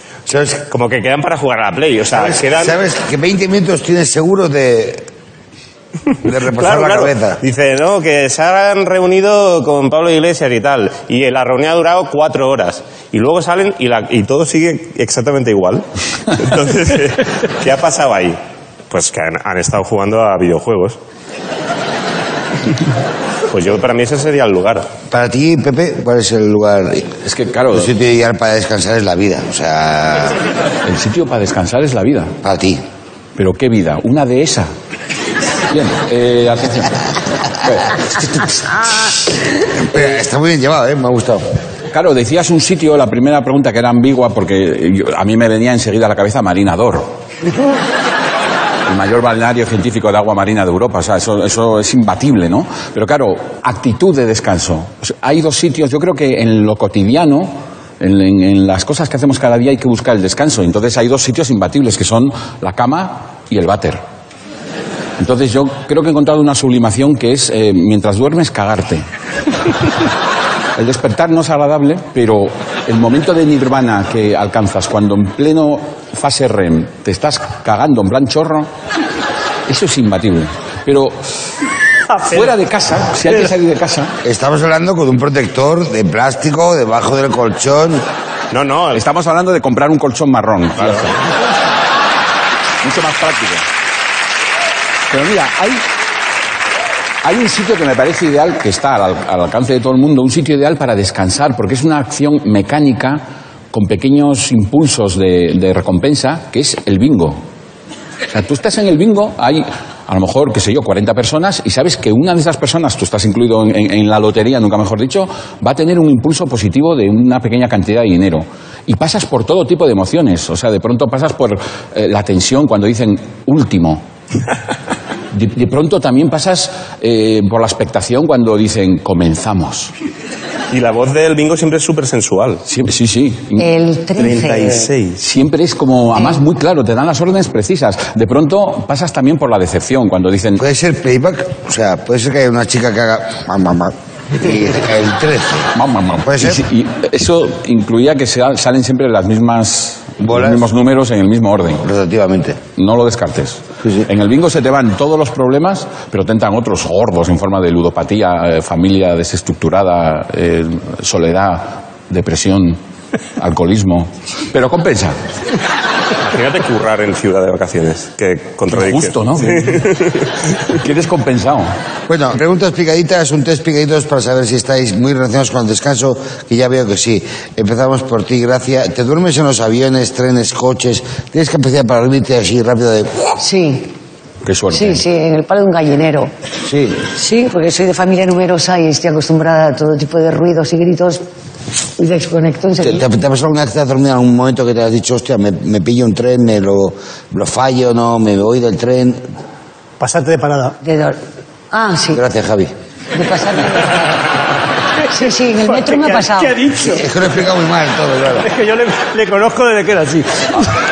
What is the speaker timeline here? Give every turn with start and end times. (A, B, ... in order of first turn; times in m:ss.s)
0:00.3-0:00.6 A
0:00.7-0:02.8 B
0:02.1-0:05.1 A
0:06.2-0:07.4 A
0:06.4-0:18.4 B
0:18.9-0:21.0 B
0:23.5-0:24.9 B
0:25.1-0:27.1 A
0:27.2-0:27.9 C
0:27.7-0:30.4 A
0:30.8-0:32.3 C
0:32.4-0:32.8 A
0:33.4-0:34.7 C
0:35.7-0:37.0 C
0:37.5-0:38.9 C
0:39.8-0:41.4 A
0:41.9-0:47.1 C
0:48.8-1:04.0 C
1:05.2-1:09.0 C
1:10.8-1:18.7 C
1:19.7-1:21.2 C
1:22.1-1:22.5 D
1:22.3-1:24.1 C
1:24.2-1:28.0 A
1:28.5-1:29.0 B
1:28.9-1:31.2 C
1:30.8-1:31.1 B
1:32.8-1:33.6 C
1:35.1-1:35.8 C
1:37.2-1:47.4 C
1:48.3-2:04.0 C
2:05.3-2:09.9 C
2:10.7-2:12.6 B
2:12.7-2:13.7 C
2:13.6-2:14.9 E
2:14.2-2:15.2 B
2:15.2-2:20.6 C
2:20.6-2:26.6 A
2:25.7-2:31.8 C
2:30.2-2:30.7 A
2:31.8-2:32.6 A
2:32.8-2:42.8 C
2:33.8-2:34.1 A
2:43.4-2:45.2 C
2:46.3-2:50.3 B
2:48.7-2:49.9 C
2:50.7-2:51.7 C
2:52.1-3:03.4 A
3:03.4-3:03.9 E
3:04.4-3:05.0 C
3:04.7-3:06.3 E
3:06.6-3:07.0 A
3:07.1-3:11.2 E
3:12.0-3:13.0 E
3:12.8-3:19.2 A
3:20.0-3:20.8 D
3:20.8-3:21.2 E
3:21.7-3:22.2 E
3:22.1-3:22.7 A
3:23.1-3:24.2 E
3:25.1-3:26.5 E
3:25.6-3:27.1 D
3:26.8-3:28.5 A
3:28.4-3:30.6 D